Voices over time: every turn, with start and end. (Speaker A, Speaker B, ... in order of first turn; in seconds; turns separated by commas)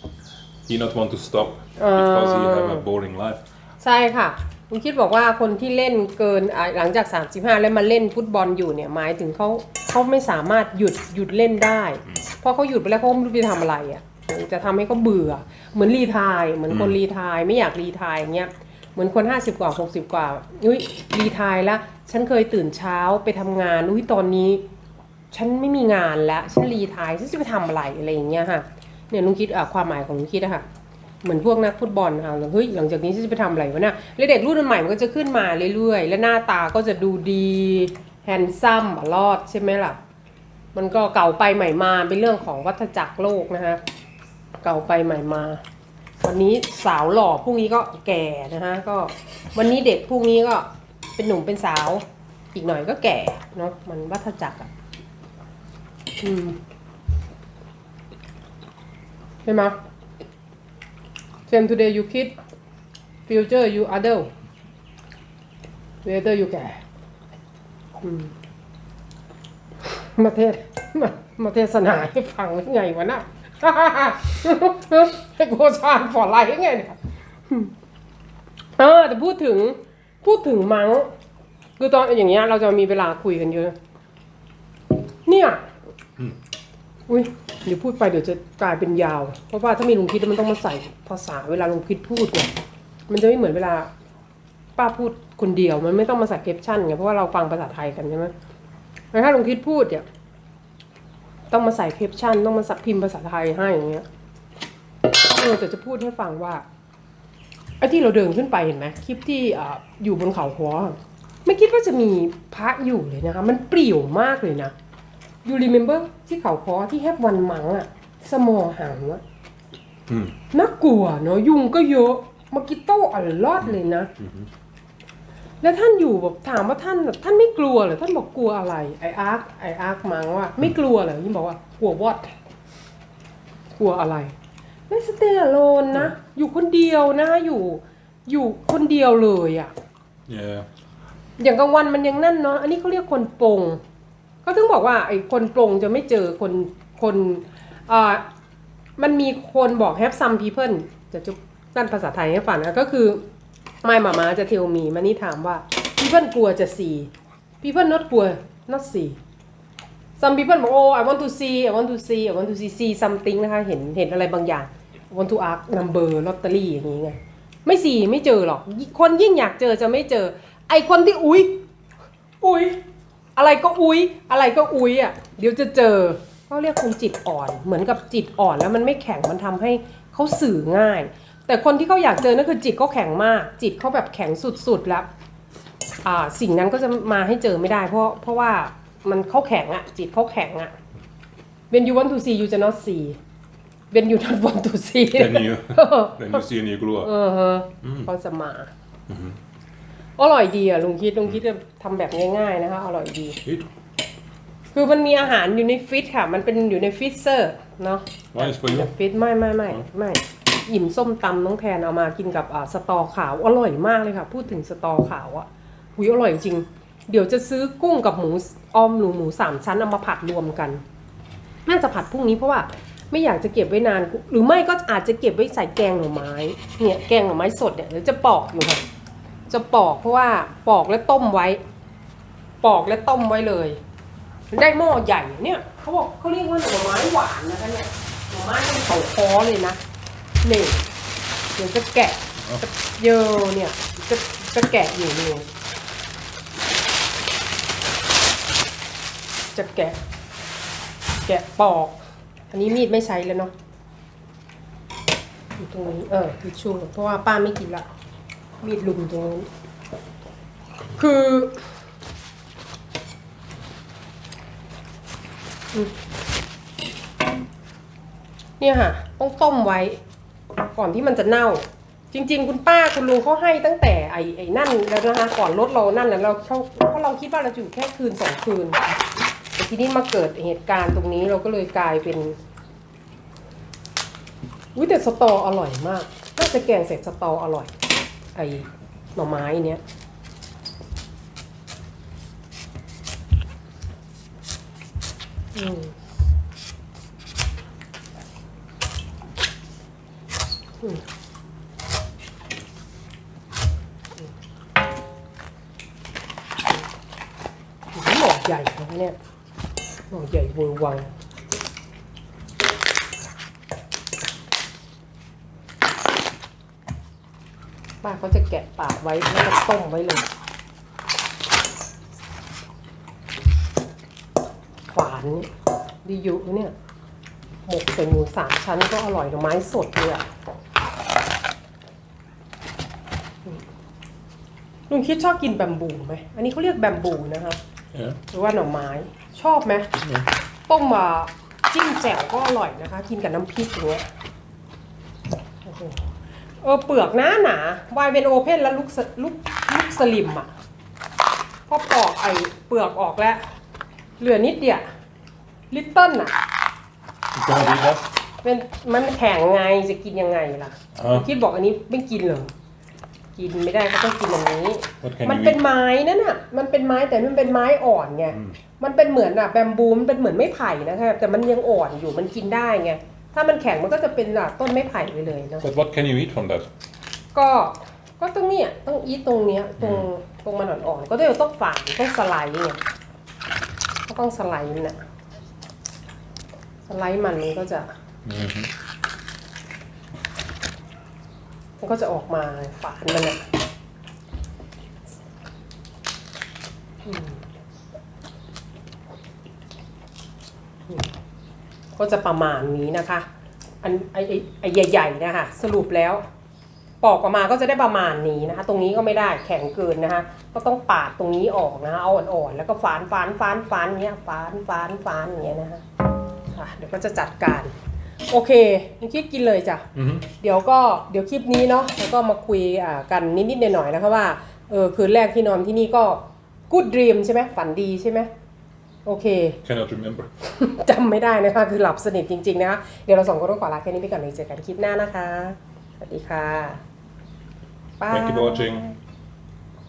Speaker A: 0.7-3.4, Speaker B: 1.8-2.8, Speaker B: 3.8-24.6, Speaker A: 16.7-17.0, Speaker B: 25.3-30.7, Speaker B: 31.2-40.0, Speaker B: 40.8-43.8, Speaker B: 44.6-45.6, Speaker B: 46.2-54.7, Speaker B: 56.2-56.6, Speaker B: 59.5-59.8, Speaker B: 61.5-62.4, Speaker B: 63.3-64.3, Speaker B: 66.0-66.8, Speaker B: 68.0-68.3, Speaker B: 69.8-77.0, Speaker B: 78.8-81.1, Speaker B: 81.8-83.8, Speaker B: 85.2-85.7, Speaker B: 87.1-92.5, Speaker B: 93.1-93.9, Speaker B: 94.8-98.3, Speaker B: 99.1-100.1, Speaker B: 101.5-104.1, Speaker B: 105.1-106.7, Speaker B: 107.8-114.7, Speaker B: 115.5-119.2, Speaker A: 120.1-120.4, Speaker B: 120.5-124.1, Speaker A: 123.6-124.5, Speaker B: 125.6-132.3, Speaker B: 133.8-134.3, Speaker B: 134.9-139.7, Speaker A: 140.3-140.7, Speaker B: 141.4-143.8, Speaker B: 144.4-148.2, Speaker B: 149.0-153.2, Speaker B: 153.8-159.2, Speaker B: 160.2-171.6, Speaker B: 172.4-172.8, Speaker B: 173.4-185.1, Speaker B: 186.0-190.8, Speaker B: 191.7-193.2, Speaker B: 193.9-196.4, Speaker A: 195.1-197.1, Speaker B: 197.0-198.7, Speaker A: 197.8-198.1, Speaker A: 199.1-199.4, Speaker B: 200.2-203.4, Speaker B: 204.7-220.8, Speaker A: 208.3-208.9, Speaker B: 221.7-228.8, Speaker B: 229.5-231.6, Speaker B: 232.6-233.8, Speaker B: 234.5-239.8, Speaker B: 240.4-240.8, Speaker B: 241.6-245.4, Speaker A: 242.4-242.6, Speaker B: 249.6-250.0, Speaker B: 251.3-252.0, Speaker B: 252.5-253.5, Speaker B: 255.6-257.9, Speaker B: 258.6-259.5, Speaker B: 261.0-261.7, Speaker B: 268.6-270.0, Speaker B: 270.8-278.9, Speaker B: 279.6-282.4, Speaker B: 284.8-287.7, Speaker B: 288.4-289.8, Speaker B: 295.6-295.9, Speaker B: 307.9-309.2, Speaker B: 310.1-311.1, Speaker B: 318.0-320.3, Speaker B: 324.9-325.5, Speaker B: 326.1-326.7, Speaker B: 327.7-330.3, Speaker B: 334.9-337.6, Speaker A: 337.9-338.2, Speaker B: 338.3-339.9, Speaker A: 340.0-340.3, Speaker B: 340.7-344.1, Speaker B: 345.6-346.1, Speaker B: 346.6-350.5, Speaker B: 351.7-353.4, Speaker B: 354.2-354.8, Speaker B: 355.7-356.4, Speaker A: 357.3-358.1, Speaker B: 358.4-362.5, Speaker A: 360.9-361.3, Speaker B: 363.4-375.6, Speaker A: 365.0-365.6, Speaker A: 368.3-368.6, Speaker A: 375.6-376.7, Speaker B: 377.3-382.8, Speaker A: 379.8-380.1, Speaker B: 384.1-385.0, Speaker B: 386.9-387.9, Speaker A: 388.2-388.7, Speaker B: 391.8-393.4, Speaker B: 397.1-397.4, Speaker B: 401.9-403.3, Speaker B: 403.8-406.2, Speaker B: 407.0-415.8, Speaker B: 416.5-417.7, Speaker B: 418.3-428.3, Speaker A: 419.9-420.3, Speaker B: 429.1-429.6, Speaker A: 429.6-430.3, Speaker B: 430.4-436.8, Speaker B: 438.0-439.0, Speaker A: 438.1-438.9